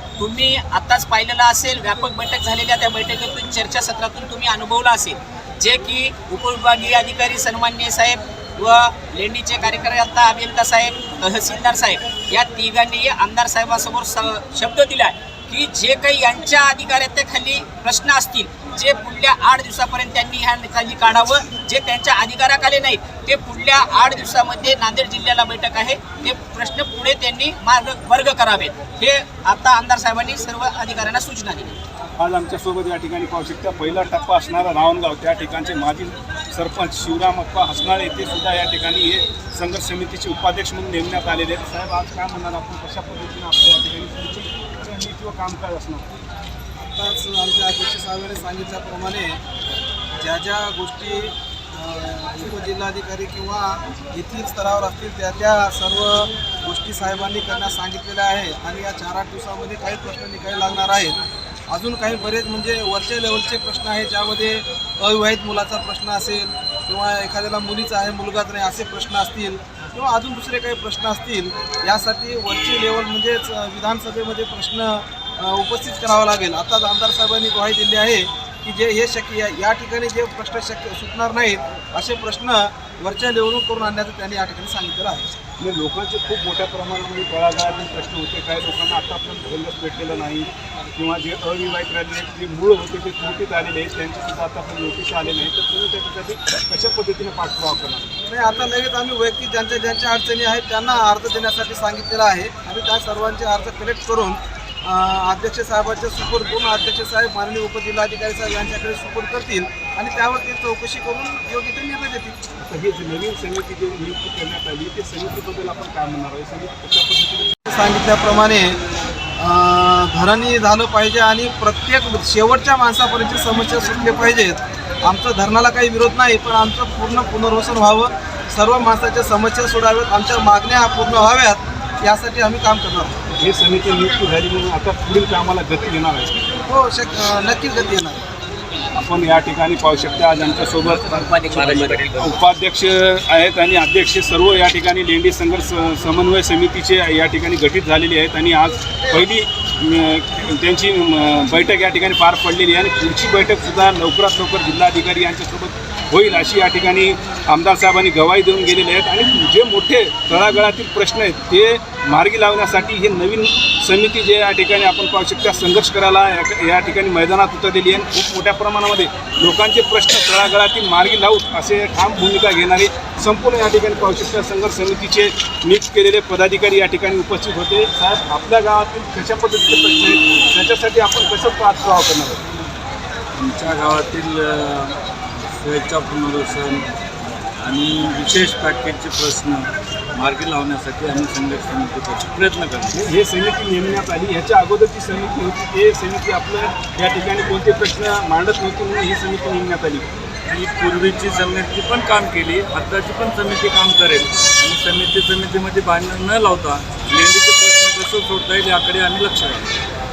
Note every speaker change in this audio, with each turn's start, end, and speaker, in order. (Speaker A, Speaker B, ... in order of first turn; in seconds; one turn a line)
Speaker A: 0.2-31.8
Speaker B: 32.2-46.1
Speaker C: 46.8-49.4
Speaker C: 50.2-61.1
Speaker C: 61.7-85.3
Speaker B: 85.6-98.2
Speaker C: 98.3-112.3
Speaker B: 112.6-117.6
Speaker C: 117.7-118.8
Speaker C: 119.4-133.2
Speaker B: 133.3-136.4
Speaker C: 136.7-138.2
Speaker B: 138.9-182.4
Speaker A: 141.4-141.9
Speaker D: 141.5-142.3
Speaker D: 183.4-184.9
Speaker D: 185.6-186.8
Speaker D: 187.6-193.0
Speaker B: 192.9-200.1
Speaker D: 200.5-209.7